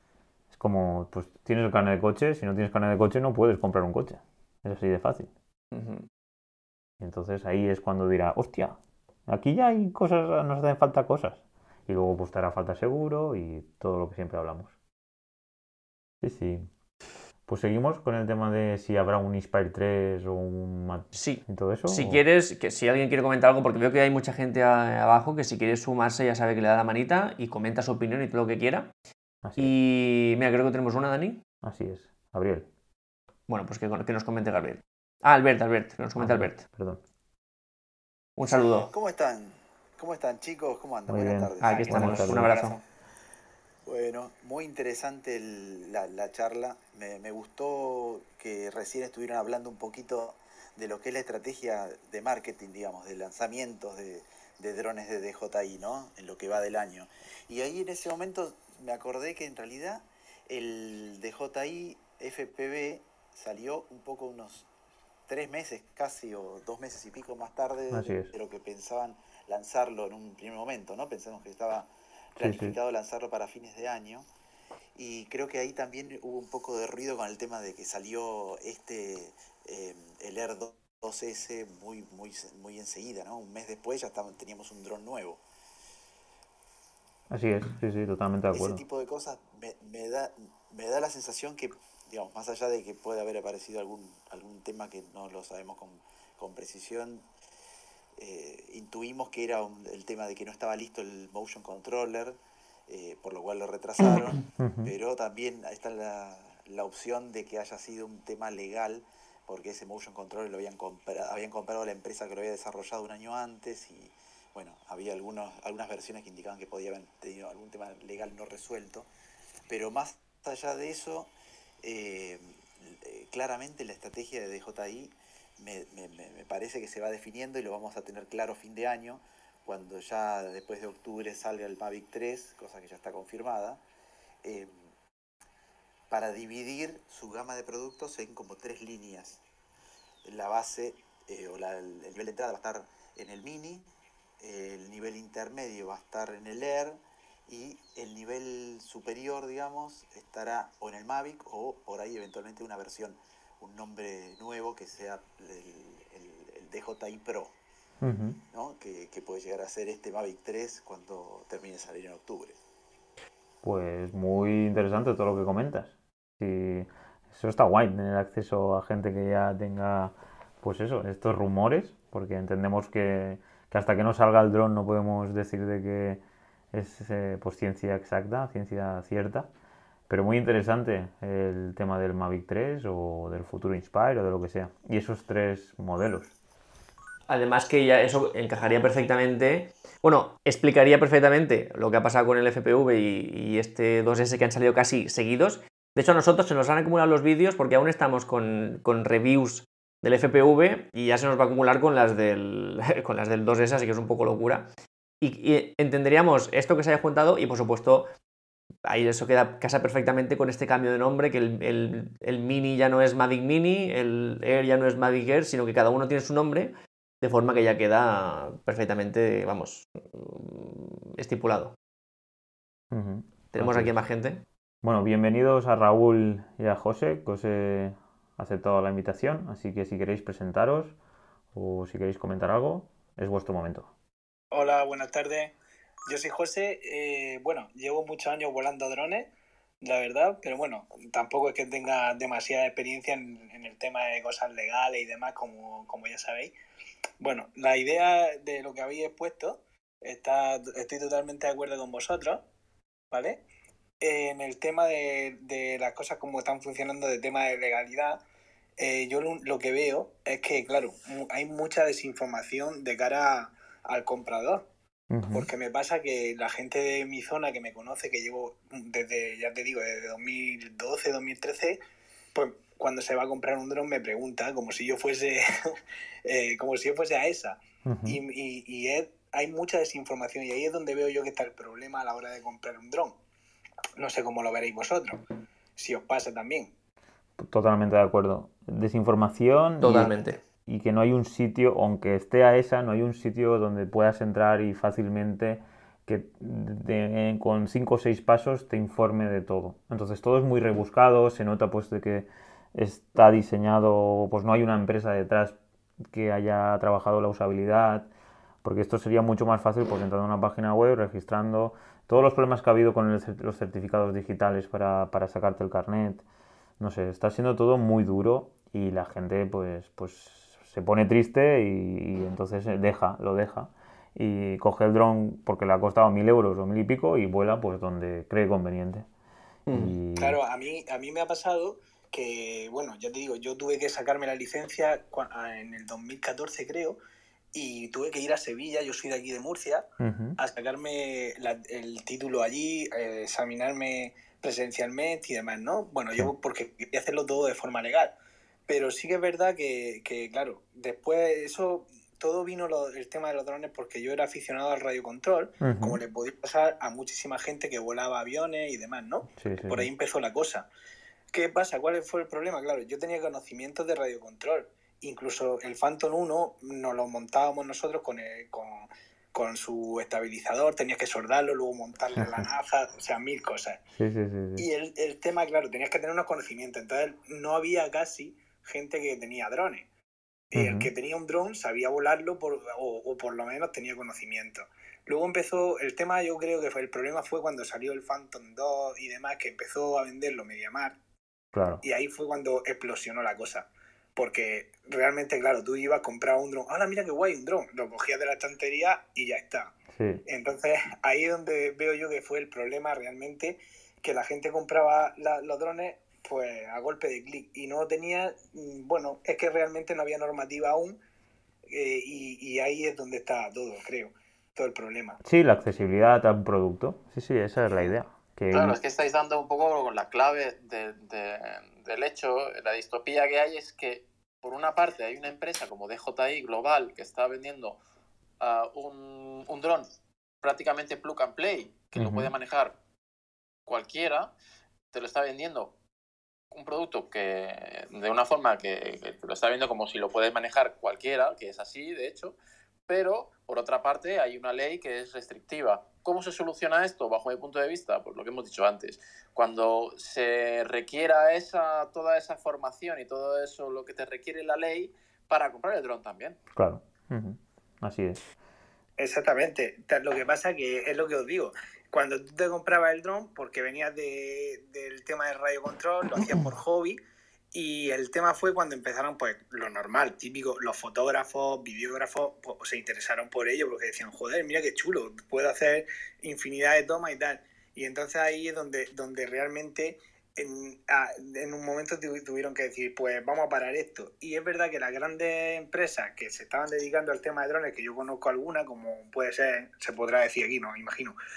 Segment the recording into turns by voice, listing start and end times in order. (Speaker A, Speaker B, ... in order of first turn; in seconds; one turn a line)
Speaker A: 0.5-5.3
Speaker B: 5.7-6.1
Speaker A: 7.0-14.7
Speaker A: 16.2-16.7
Speaker A: 17.5-22.2
Speaker B: 21.1-28.9
Speaker A: 29.4-29.7
Speaker B: 29.6-31.4
Speaker A: 31.6-32.7
Speaker B: 33.5-36.6
Speaker A: 36.2-37.0
Speaker B: 38.4-38.9
Speaker C: 38.9-42.8
Speaker A: 41.1-42.5
Speaker B: 41.6-42.8
Speaker C: 43.9-64.7
Speaker C: 65.3-74.3
Speaker A: 67.9-68.3
Speaker A: 72.4-72.8
Speaker C: 75.0-85.4
Speaker A: 87.3-88.8
Speaker C: 88.5-97.2
Speaker C: 98.2-102.4
Speaker C: 102.9-119.1
Speaker A: 104.6-104.9
Speaker C: 119.7-121.3
Speaker C: 121.8-133.8
Speaker C: 134.4-134.9
Speaker C: 136.1-139.4
Speaker C: 140.2-143.9
Speaker C: 144.4-157.6
Speaker A: 158.0-158.4
Speaker C: 158.5-162.6
Speaker A: 163.6-176.2
Speaker A: 176.7-179.5
Speaker A: 180.1-186.3
Speaker B: 187.3-204.7
Speaker B: 205.2-208.1
Speaker B: 208.8-221.8
Speaker A: 222.9-223.9
Speaker B: 223.5-224.4
Speaker A: 224.8-230.9
Speaker A: 231.5-233.9
Speaker D: 234.5-235.5
Speaker D: 236.1-239.3
Speaker D: 239.8-246.6
Speaker D: 247.2-252.4
Speaker D: 253.1-253.4
Speaker D: 254.0-258.2
Speaker D: 258.8-264.7
Speaker A: 265.1-265.5
Speaker D: 265.3-271.8
Speaker D: 272.3-275.7
Speaker D: 276.2-283.2
Speaker A: 277.8-278.2
Speaker D: 284.0-285.2
Speaker D: 285.8-286.7
Speaker A: 287.4-308.1
Speaker B: 289.8-290.4
Speaker A: 308.6-316.2
Speaker A: 316.8-329.1
Speaker B: 329.7-329.9
Speaker A: 329.7-330.4
Speaker D: 330.2-337.0
Speaker D: 337.5-339.9
Speaker A: 340.0-340.4
Speaker D: 340.4-348.1
Speaker D: 348.7-360.7
Speaker A: 355.6-356.0
Speaker A: 359.4-359.9
Speaker D: 361.3-373.8
Speaker A: 372.1-372.5
Speaker A: 373.9-374.7
Speaker D: 374.6-379.9
Speaker D: 380.5-391.0
Speaker A: 380.5-380.9
Speaker A: 391.5-391.8
Speaker D: 391.8-399.8
Speaker A: 399.9-400.2
Speaker D: 400.3-411.0
Speaker D: 411.7-415.2
Speaker A: 415.2-418.8
Speaker E: 418.5-427.8
Speaker E: 428.4-429.9
Speaker E: 430.4-432.8
Speaker A: 432.0-432.3
Speaker E: 433.7-434.3
Speaker E: 434.9-435.7
Speaker E: 436.5-442.4
Speaker E: 442.9-456.4
Speaker A: 456.6-458.2
Speaker D: 459.0-467.0
Speaker D: 467.5-491.2